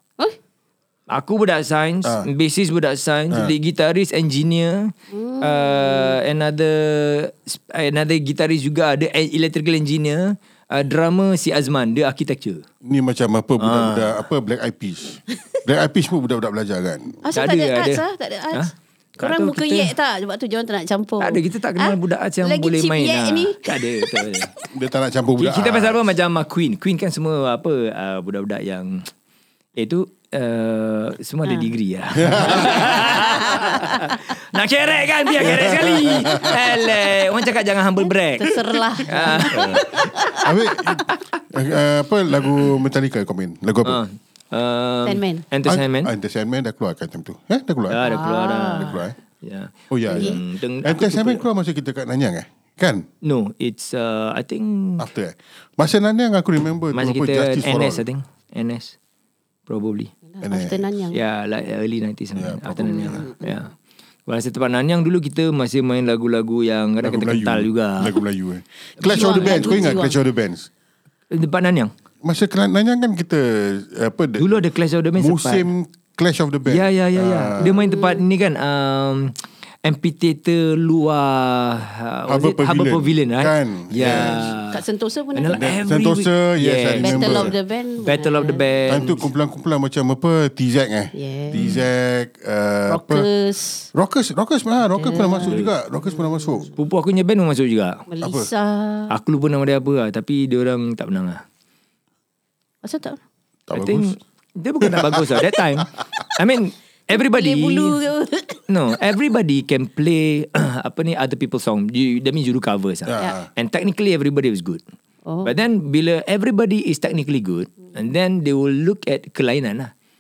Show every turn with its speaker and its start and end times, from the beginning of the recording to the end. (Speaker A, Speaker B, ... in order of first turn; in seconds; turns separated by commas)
Speaker A: 1.1-12.7, Speaker B: 5.1-6.2, Speaker C: 12.8-17.2, Speaker A: 13.6-14.2, Speaker B: 17.2-24.4, Speaker A: 17.3-19.9, Speaker A: 21.2-24.5, Speaker C: 24.7-26.0, Speaker A: 25.4-29.1, Speaker A: 29.8-40.5, Speaker C: 32.2-33.2, Speaker B: 33.1-34.1, Speaker C: 35.4-36.8, Speaker B: 38.4-40.5, Speaker C: 39.5-44.0, Speaker A: 43.9-46.1, Speaker B: 45.0-45.5, Speaker C: 45.6-48.1, Speaker A: 47.9-51.4, Speaker B: 48.0-49.0, Speaker C: 48.8-49.2, Speaker C: 49.9-53.0, Speaker B: 50.1-50.4, Speaker A: 53.2-55.0, Speaker C: 55.0-58.0, Speaker A: 56.9-59.0, Speaker A: 59.7-60.1, Speaker B: 60.3-61.2, Speaker C: 60.4-60.9, Speaker A: 61.1-63.7, Speaker C: 62.4-63.3, Speaker B: 62.9-63.6, Speaker A: 64.3-68.2, Speaker C: 67.0-70.7, Speaker A: 69.0-70.0, Speaker B: 69.0-70.2, Speaker A: 71.3-71.9, Speaker C: 72.2-74.6, Speaker A: 74.4-75.7, Speaker C: 75.2-77.8, Speaker A: 76.7-84.8, Speaker B: 77.8-78.2, Speaker C: 82.3-84.5, Speaker B: 84.0-85.7, Speaker A: 85.3-89.2, Speaker C: 85.5-87.5, Speaker B: 87.0-88.6, Speaker C: 88.9-93.3, Speaker B: 91.1-91.6, Speaker A: 91.5-91.8, Speaker B: 92.9-93.9, Speaker C: 93.9-96.7, Speaker B: 94.9-96.7, Speaker A: 95.5-95.7, Speaker A: 96.8-98.1, Speaker B: 98.1-99.2, Speaker C: 98.2-98.5, Speaker A: 99.1-101.4, Speaker B: 102.8-103.2, Speaker C: 103.7-104.1, Speaker A: 103.7-108.0, Speaker C: 104.8-106.0, Speaker B: 107.1-108.6, Speaker A: 108.7-114.8, Speaker C: 113.1-113.5, Speaker B: 115.3-115.5, Speaker A: 115.4-119.9